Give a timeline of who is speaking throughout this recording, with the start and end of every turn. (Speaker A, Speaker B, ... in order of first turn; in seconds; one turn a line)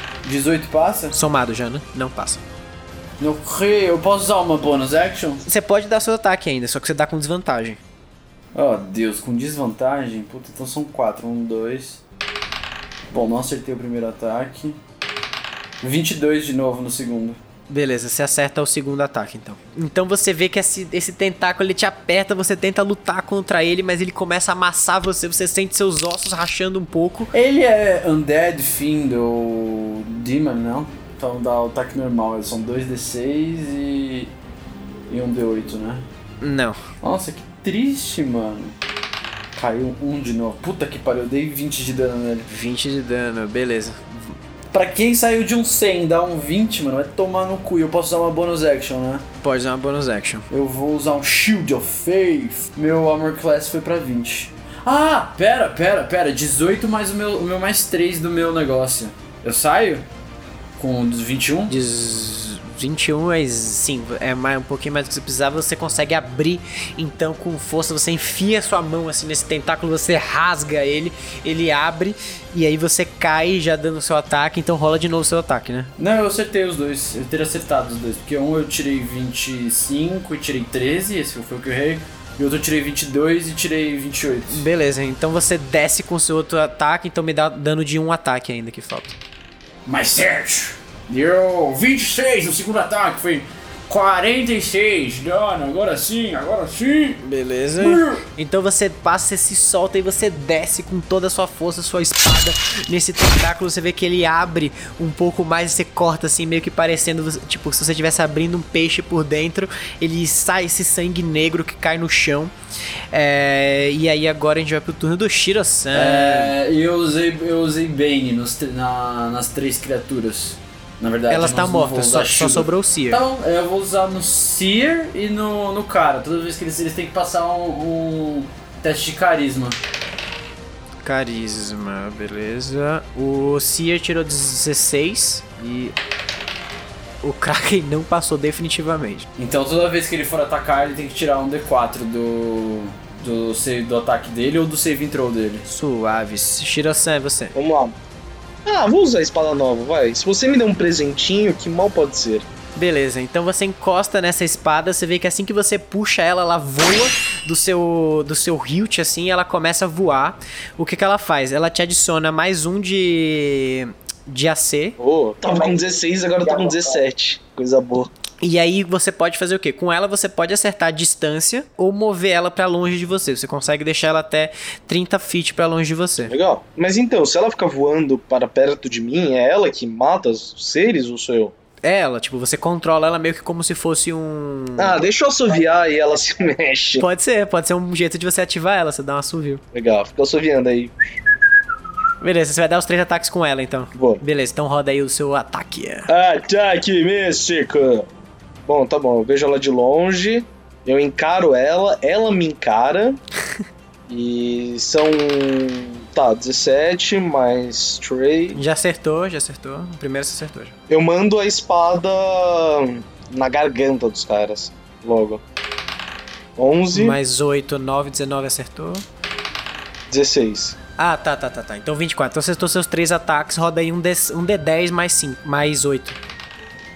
Speaker A: 0.2-1.2
Speaker B: 1.1-2.4
Speaker A: 3.2-5.4
Speaker B: 5.5-7.8
Speaker A: 8.6-12.0
Speaker A: 13.1-14.8
Speaker A: 15.8-17.4
Speaker B: 17.7-27.3
Speaker A: 27.3-34.3
Speaker A: 35.1-36.0
Speaker B: 36.4-36.8
Speaker A: 37.0-38.8
Speaker A: 39.5-42.5
Speaker B: 42.5-44.4
Speaker A: 44.7-49.3
Speaker B: 49.4-50.5
Speaker A: 50.5-60.1
Speaker A: 60.8-61.8
Speaker B: 61.7-75.9
Speaker A: 76.0-84.6
Speaker B: 84.5-89.2
Speaker A: 89.9-97.2
Speaker B: 97.2-112.5
Speaker A: 97.8-98.2
Speaker B: 113.1-116.5
Speaker A: 115.9-129.8
Speaker B: 121.3-123.2
Speaker B: 131.0-135.9
Speaker B: 137.2-139.3
Speaker A: 139.4-145.7
Speaker B: 145.7-147.6
Speaker C: 147.6-148.0
Speaker C: 148.7-152.5
Speaker B: 152.8-165.0
Speaker C: 165.0-168.1
Speaker B: 168.4-176.3
Speaker C: 176.2-181.6
Speaker B: 181.8-185.0
Speaker C: 184.8-187.1
Speaker B: 187.0-189.6
Speaker C: 189.7-191.0
Speaker B: 192.2-196.1
Speaker C: 194.0-194.2
Speaker C: 196.1-198.1
Speaker C: 198.7-203.2
Speaker C: 204.1-208.6
Speaker B: 208.6-210.7
Speaker C: 210.9-215.4
Speaker C: 216.6-217.2
Speaker B: 216.9-219.1
Speaker C: 220.1-220.8
Speaker B: 221.0-226.2